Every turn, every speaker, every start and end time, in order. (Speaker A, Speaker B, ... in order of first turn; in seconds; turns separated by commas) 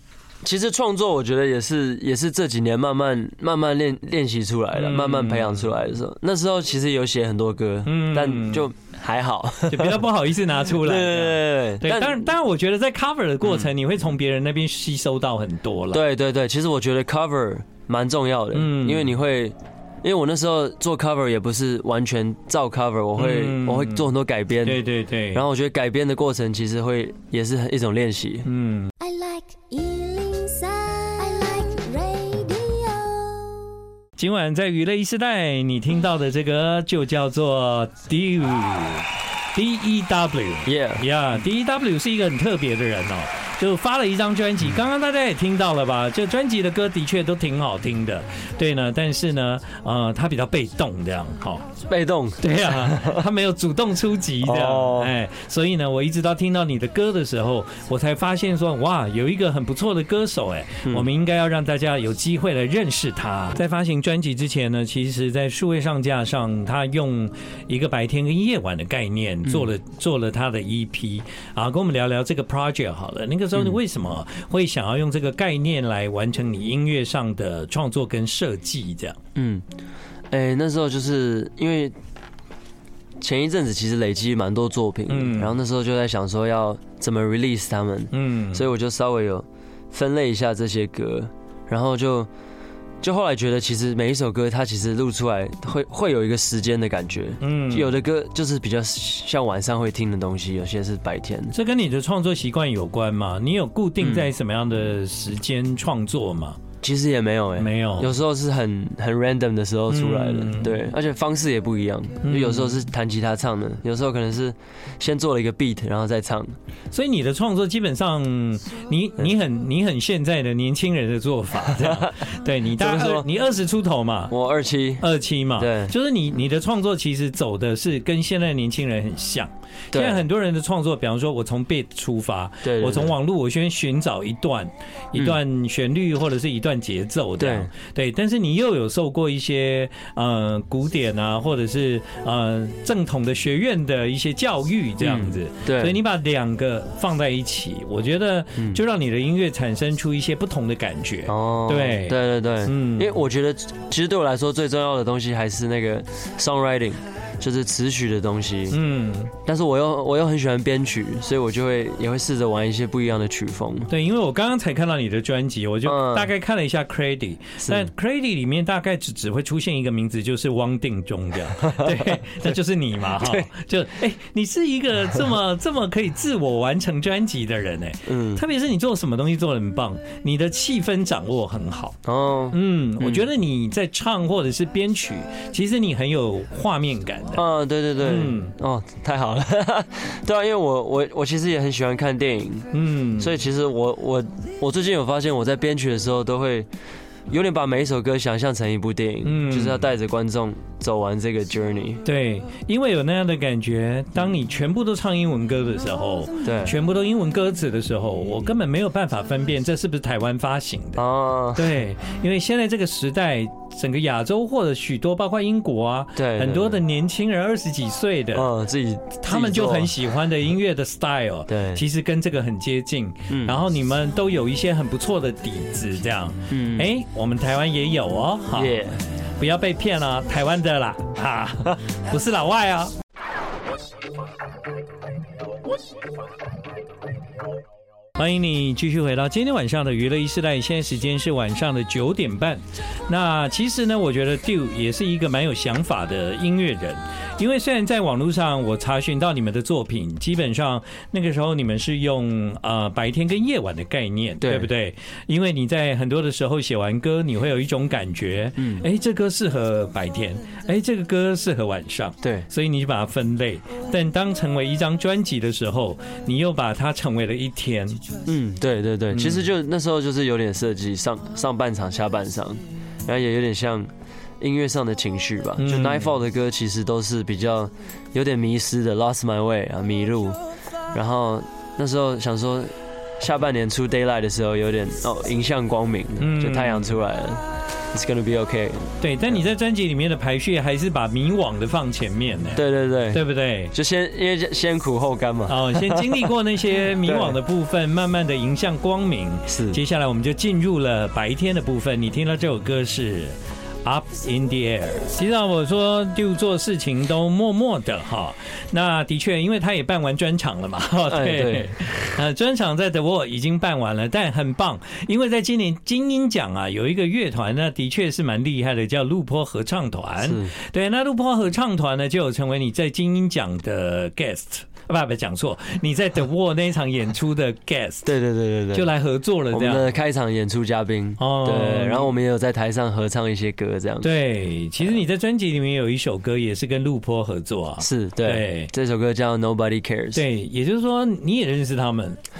Speaker A: 0.4-10.0, Speaker B: 4.8-5.7, Speaker B: 7.9-8.7, Speaker B: 9.7-16.0, Speaker A: 10.8-12.3, Speaker A: 13.4-13.7, Speaker A: 15.9-28.5, Speaker B: 18.5-19.1, Speaker B: 23.2-24.1, Speaker B: 24.6-25.4, Speaker B: 28.4-28.9, Speaker C: 29.0-33.7, Speaker B: 34.2-51.7, Speaker A: 40.6-41.0, Speaker A: 51.9-53.2, Speaker B: 52.4-79.2, Speaker A: 54.4-55.1, Speaker A: 79.4-79.7, Speaker A: 80.3-82.0, Speaker A: 83.2-92.3, Speaker B: 85.1-85.5, Speaker B: 88.1-88.6, Speaker A: 93.0-101.5, Speaker B: 97.4-97.9, Speaker B: 101.5-106.6, Speaker A: 104.0-104.3, Speaker A: 106.8-116.5, Speaker B: 107.6-108.1, Speaker B: 109.9-110.8, Speaker B: 112.2-112.8, Speaker B: 116.9-124.3, Speaker A: 121.8-122.2, Speaker A: 122.8-123.3, Speaker A: 124.3-125.1, Speaker B: 125.0-153.1, Speaker A: 125.6-125.9, Speaker A: 129.9-130.3, Speaker A: 132.6-133.2, Speaker A: 137.4-137.7, Speaker A: 145.0-146.0, Speaker A: 148.6-148.8, Speaker A: 151.3-158.8, Speaker B: 158.7-159.3, Speaker A: 159.4-163.9, Speaker B: 163.9-182.0, Speaker A: 165.8-166.3, Speaker A: 167.6-167.9, Speaker A: 171.5-172.6, Speaker A: 173.1-173.5, Speaker A: 178.1-178.4, Speaker A: 182.1-183.3, Speaker B: 182.5-187.4, Speaker A: 187.3-196.7, Speaker B: 188.0-188.6, Speaker B: 192.7-193.4, Speaker A: 197.3-202.0, Speaker B: 199.2-199.9, Speaker B: 202.1-211.0, Speaker A: 206.4-206.8, Speaker A: 211.0-211.8, Speaker B: 211.5-218.5, Speaker A: 216.2-216.8, Speaker A: 218.3-219.9, Speaker B: 219.2-228.8, Speaker A: 221.5-221.8, Speaker A: 223.3-223.6, Speaker A: 226.5-226.9, Speaker A: 228.5-229.0, Speaker B: 229.4-232.9, Speaker B: 238.2-268.0, Speaker A: 254.4-254.7, Speaker A: 258.6-258.9, Speaker A: 262.2-262.5, Speaker A: 268.2-280.4, Speaker B: 269.1-269.5, Speaker B: 275.6-276.1, Speaker A: 280.9-289.4, Speaker B: 286.2-286.9, Speaker B: 289.0-293.7, Speaker A: 292.5-296.3, Speaker B: 295.5-328.1, Speaker A: 297.0-297.4, Speaker A: 299.5-299.8, Speaker A: 311.1-311.8, Speaker A: 320.2-320.5, Speaker A: 328.1-328.9, Speaker B: 328.7-329.9, Speaker A: 329.5-334.1, Speaker B: 331.2-332.1, Speaker B: 334.0-338.7, Speaker A: 337.8-340.2, Speaker B: 340.1-342.2